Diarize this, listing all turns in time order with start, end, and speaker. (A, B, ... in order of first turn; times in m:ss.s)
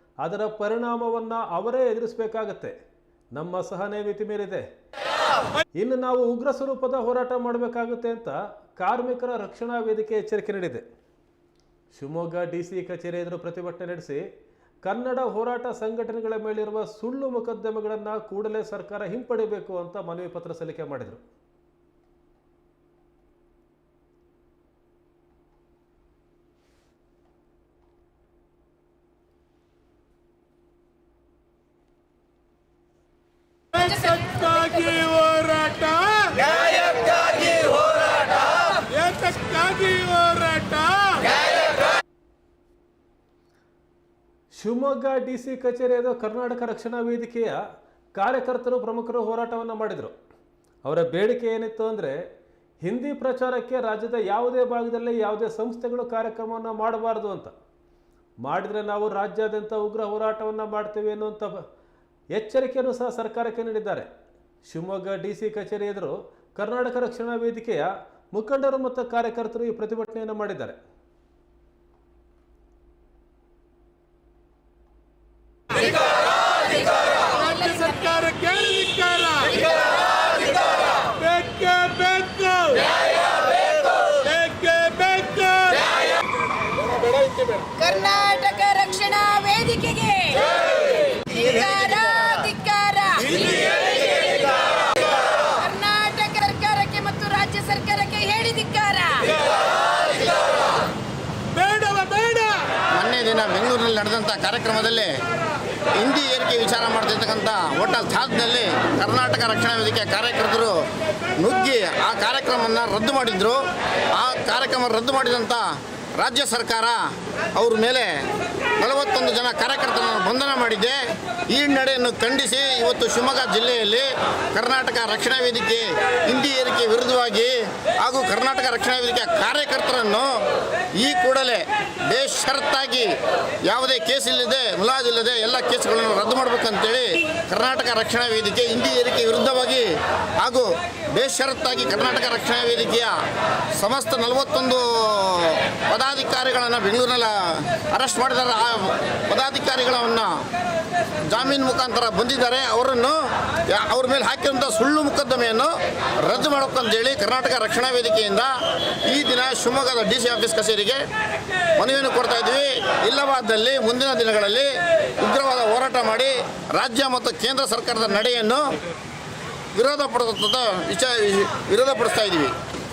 0:00.2-0:02.7 A
0:03.3-0:04.6 A
0:05.8-0:10.8 A
0:11.9-0:14.2 A
0:14.8-0:21.2 A
0:33.8-0:35.1 B
0:35.0-0:36.6 C
0:38.9-0:41.3 C
0:44.5-0:47.6 A
0:48.2-0:50.1 A
0:50.8-0:52.2 A
0:52.8-0:57.5 A
0:58.4-1:01.6 A
1:02.3-1:04.1 A
1:04.6-1:10.8 A
1:17.2-1:18.2 B
1:17.8-1:19.5 C
1:21.2-1:22.9 C
1:24.2-1:25.8 C
1:27.7-1:39.4 B
1:41.6-1:42.6 C
1:42.9-1:45.1 D
1:46.0-1:50.8 D
1:51.4-1:53.6 D
1:54.1-1:57.0 D
1:57.6-1:58.2 D
1:58.8-2:10.4 D
2:11.0-2:13.1 D
2:13.6-2:19.9 D
2:20.4-2:23.1 D
2:23.8-2:30.4 D
2:31.3-2:38.5 D
2:39.1-2:41.0 D
2:41.8-2:48.7 D
2:49.7-2:52.5 D